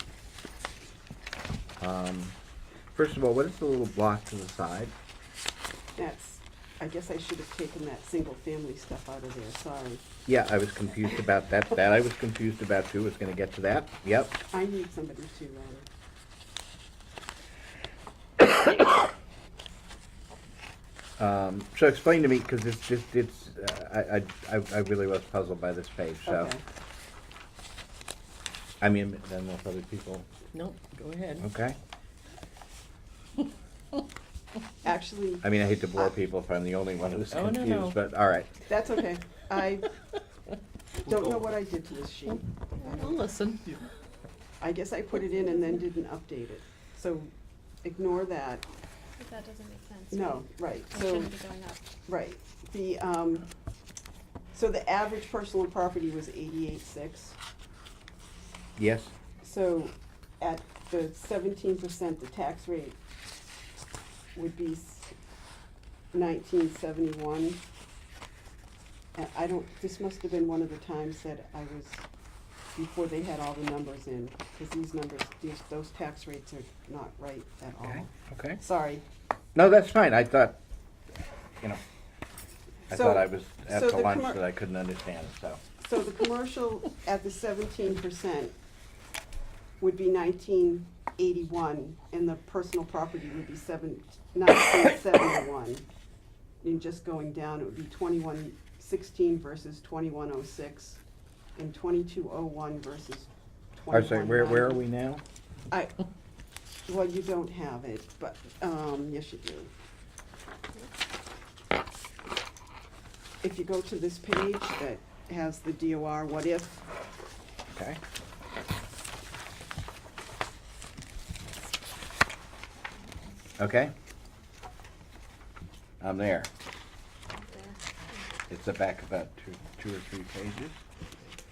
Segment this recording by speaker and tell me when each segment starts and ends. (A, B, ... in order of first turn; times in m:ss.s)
0:01.8-0:02.4 A
0:02.9-0:04.9 A
0:06.0-0:10.0 B
0:10.3-0:14.4 A
0:14.5-0:15.9 B
0:21.2-0:26.5 A
0:26.3-0:26.6 B
0:28.8-0:30.3 A
0:30.5-0:31.4 C
0:31.4-0:31.8 A
0:34.8-0:35.4 B
0:35.4-0:38.5 A
0:37.3-0:38.0 C
0:38.7-0:39.9 B
0:41.0-0:43.2 B
0:42.8-0:43.9 C
0:44.6-0:47.3 B
0:47.8-0:48.6 B
0:49.2-0:51.8 D
0:50.1-0:51.3 B
0:52.1-0:53.4 B
0:54.5-0:57.4 B
0:58.8-0:59.1 A
0:59.4-1:03.0 B
1:04.4-1:05.1 B
1:06.1-1:07.6 B
1:09.2-1:12.1 B
1:12.8-1:19.0 B
1:17.8-1:18.6 A
1:19.6-1:20.6 A
1:22.9-1:24.4 B
1:22.9-1:25.6 A
1:25.8-1:28.5 B
1:29.8-1:35.9 B
1:36.6-1:41.0 B
1:41.6-1:44.8 B
1:43.9-1:45.2 A
1:45.7-1:46.0 B
1:46.9-1:49.7 B
1:53.4-1:56.8 B
1:57.7-1:58.0 A
2:03.6-2:03.9 A
2:06.0-2:06.5 A
2:08.5-2:10.8 A